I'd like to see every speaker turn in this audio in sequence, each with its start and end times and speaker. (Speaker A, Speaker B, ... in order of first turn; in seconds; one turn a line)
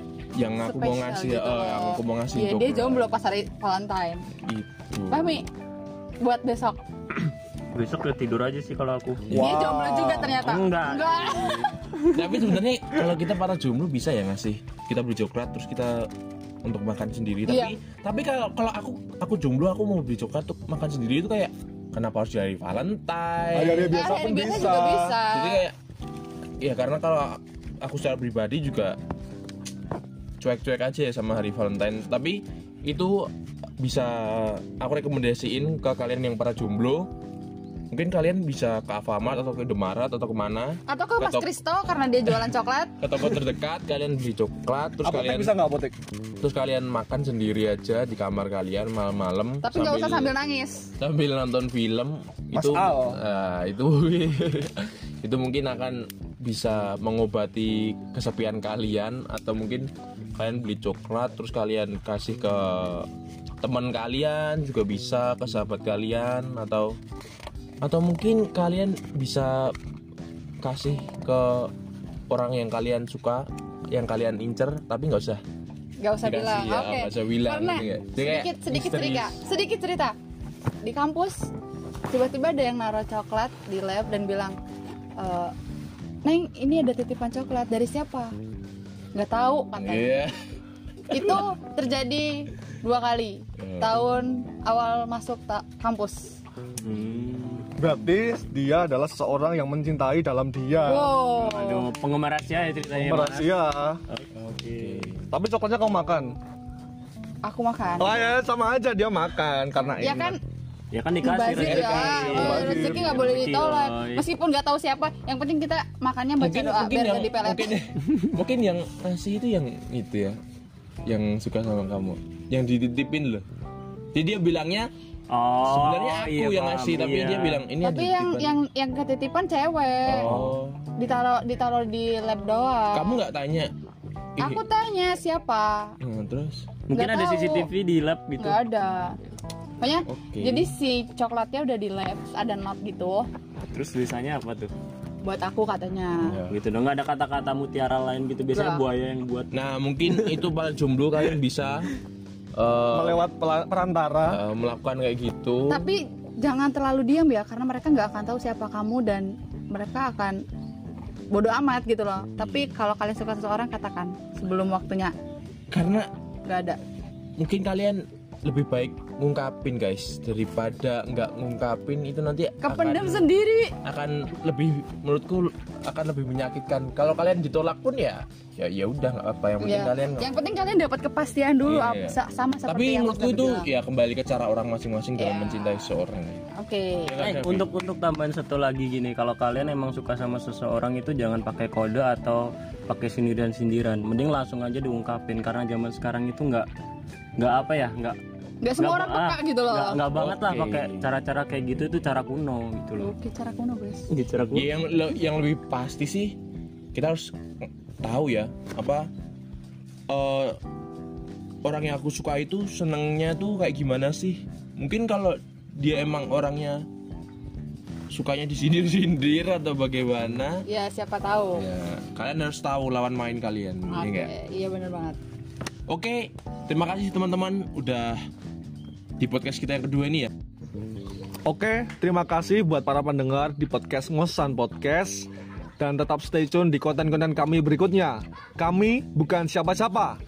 Speaker A: 0.4-3.0
Speaker B: 0.6-4.2
Speaker A: 4.4-5.3
Speaker B: 5.1-5.5
Speaker B: 6.2-6.8
Speaker C: 7.7-9.3
Speaker A: 9.3-9.6
Speaker D: 9.3-10.6
Speaker B: 9.4-12.5
Speaker C: 10.3-11.7
Speaker A: 12.1-16.0
Speaker A: 16.6-24.1
Speaker B: 17.5-17.7
Speaker D: 23.5-25.2
Speaker B: 23.9-25.6
Speaker A: 25.3-25.7
Speaker A: 26.6-29.0
Speaker A: 30.4-33.3
Speaker A: 33.8-37.1
Speaker A: 37.9-41.5
Speaker B: 40.9-42.9
Speaker A: 43.0-45.5
Speaker D: 45.0-46.0
Speaker A: 46.4-50.3
Speaker B: 49.6-50.9
Speaker A: 51.0-63.1
Speaker D: 52.5-53.2
Speaker A: 63.6-66.9
Speaker A: 67.8-69.8
Speaker A: 70.6-71.7
Speaker A: 72.3-75.4
Speaker B: 76.0-80.2
Speaker A: 76.2-79.4
Speaker B: 80.8-81.5
Speaker B: 82.1-84.6
Speaker B: 85.2-85.5
Speaker B: 86.2-88.3
Speaker B: 89.1-90.2
Speaker A: 89.8-90.3
Speaker A: 91.1-91.4
Speaker B: 91.1-96.4
Speaker A: 93.6-94.0
Speaker C: 96.8-97.7
Speaker D: 97.8-101.1
Speaker B: 100.8-101.9
Speaker C: 101.4-103.5
Speaker D: 102.9-104.0
Speaker C: 104.1-105.2
Speaker A: 104.4-105.2
Speaker D: 105.3-106.4
Speaker B: 107.4-108.3
Speaker D: 108.0-110.4
Speaker B: 110.0-110.4
Speaker C: 110.9-114.3
Speaker B: 111.2-117.7
Speaker D: 111.5-113.2
Speaker A: 112.2-112.7
Speaker A: 116.4-120.4
Speaker A: 121.1-123.4
Speaker A: 124.1-124.9
Speaker C: 125.3-127.6
Speaker A: 125.7-128.5
Speaker B: 127.8-130.3
Speaker C: 130.1-130.6
Speaker A: 130.1-130.9
Speaker B: 131.0-133.2
Speaker A: 132.9-133.7
Speaker B: 134.4-135.9
Speaker A: 136.0-136.7
Speaker C: 136.9-138.6
Speaker B: 136.9-137.7
Speaker B: 138.4-139.2
Speaker B: 139.8-143.3
Speaker A: 140.1-140.7
Speaker C: 143.7-144.7
Speaker B: 145.2-146.3
Speaker A: 146.2-146.6
Speaker C: 146.5-149.5
Speaker B: 148.5-148.8
Speaker A: 149.5-151.9
Speaker C: 150.1-150.4
Speaker A: 152.6-153.2
Speaker D: 152.9-154.4
Speaker A: 154.3-155.9
Speaker B: 155.7-160.4
Speaker B: 161.3-165.1
Speaker A: 165.7-166.1
Speaker B: 166.4-166.8
Speaker A: 167.4-173.3
Speaker B: 172.6-173.7
Speaker A: 173.8-180.3
Speaker B: 179.6-183.7
Speaker A: 181.7-186.5
Speaker B: 185.2-185.8
Speaker B: 186.6-187.2
Speaker A: 187.1-187.7
Speaker C: 187.2-196.7
Speaker C: 197.4-198.2
Speaker B: 198.6-200.0
Speaker C: 198.8-203.1
Speaker A: 200.1-201.1
Speaker B: 203.0-204.1
Speaker C: 204.1-204.7
Speaker A: 204.5-206.4
Speaker A: 206.9-209.1
Speaker A: 210.1-210.6
Speaker A: 211.6-216.8
Speaker A: 218.1-220.6
Speaker B: 220.7-221.6
Speaker A: 221.6-224.3
Speaker B: 223.9-225.2
Speaker A: 225.9-228.2
Speaker A: 229.2-230.3
Speaker D: 231.4-240.2